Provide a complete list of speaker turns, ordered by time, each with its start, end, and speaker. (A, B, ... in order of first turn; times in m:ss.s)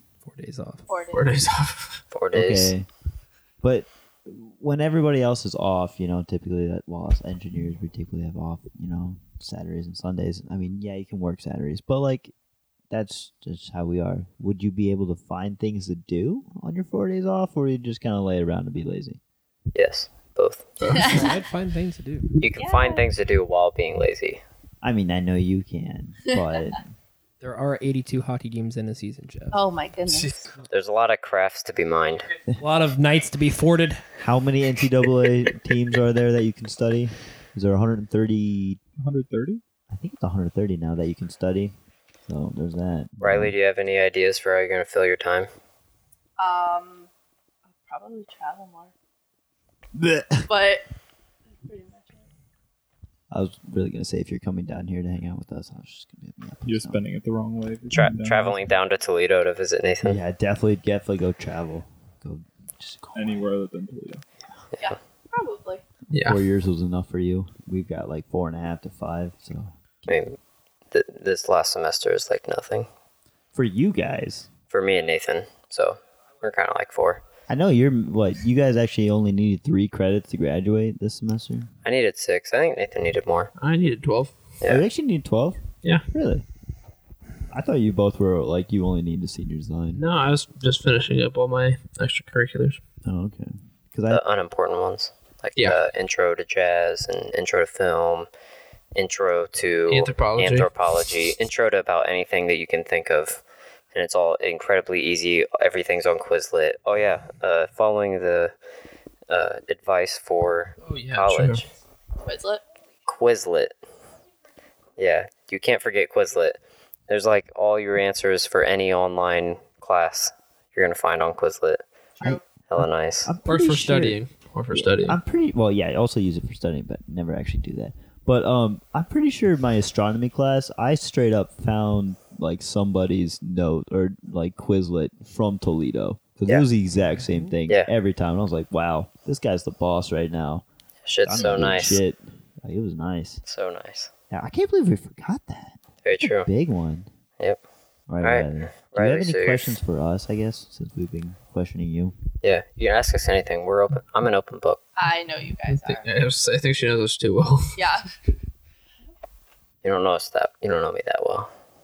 0:00.2-0:00.9 A
0:00.9-0:01.4 B
0:01.1-0:02.0 C
0:02.1-0:02.7 D
0:02.3-0:02.9 E
0:03.6-0:12.3 E
0:12.9-0:19.2 E
0:19.7-0:20.7 D
0:20.8-0:21.2 C
0:20.9-0:21.4 B
0:20.9-0:22.3 A
0:22.4-0:24.4 D
0:22.6-0:23.1 B
0:24.8-0:26.9 E
0:26.3-0:26.6 B
0:27.4-0:29.6 A
0:29.5-0:30.4 B
0:30.7-0:32.3 D
0:32.6-0:34.0 A
0:34.2-0:38.8 E
0:39.0-0:39.6 F
0:39.9-0:41.7 E
0:42.2-0:43.5 E
0:43.2-0:45.5 D
0:46.4-0:47.1 B
0:47.7-0:48.9 B
0:49.9-0:50.5 E
0:50.5-0:50.8 B
0:51.6-0:52.3 B
0:53.3-0:57.0 E
0:56.6-0:58.7 F
0:57.9-1:00.2 D
1:00.0-1:03.4 E
1:03.1-1:04.2 F
1:04.8-1:05.8 B
1:06.1-1:06.4 C
1:06.1-1:10.1 E
1:10.1-1:10.4 D
1:10.9-1:12.9 D
1:13.5-1:14.5 E
1:14.7-1:17.2 D
1:17.5-1:21.7 E
1:21.8-1:23.5 D
1:23.6-1:24.3 C
1:24.6-1:26.4 E
1:27.5-1:30.0 E
1:29.9-1:32.8 C
1:33.0-1:34.2 E
1:34.1-1:38.3 D
1:38.9-1:43.4 D
1:39.9-1:40.7 C
1:43.9-1:48.5 D
1:49.3-1:51.6 D
1:50.8-1:51.6 C
1:52.2-1:52.6 B
1:53.0-1:53.7 D
1:55.0-2:01.8 D
2:02.2-2:04.2 E
2:02.7-2:03.3 D
2:03.4-2:05.2 C
2:04.7-2:20.6 E
2:21.0-2:22.0 D
2:21.2-2:23.4 E
2:23.4-2:24.1 D
2:24.3-2:27.1 E
2:26.0-2:26.5 D
2:28.1-2:32.1 E
2:28.2-2:29.8 D
2:32.4-2:34.8 D
2:35.0-2:36.1 B
2:35.7-2:37.9 C
2:37.8-2:38.1 B
2:39.8-2:41.5 D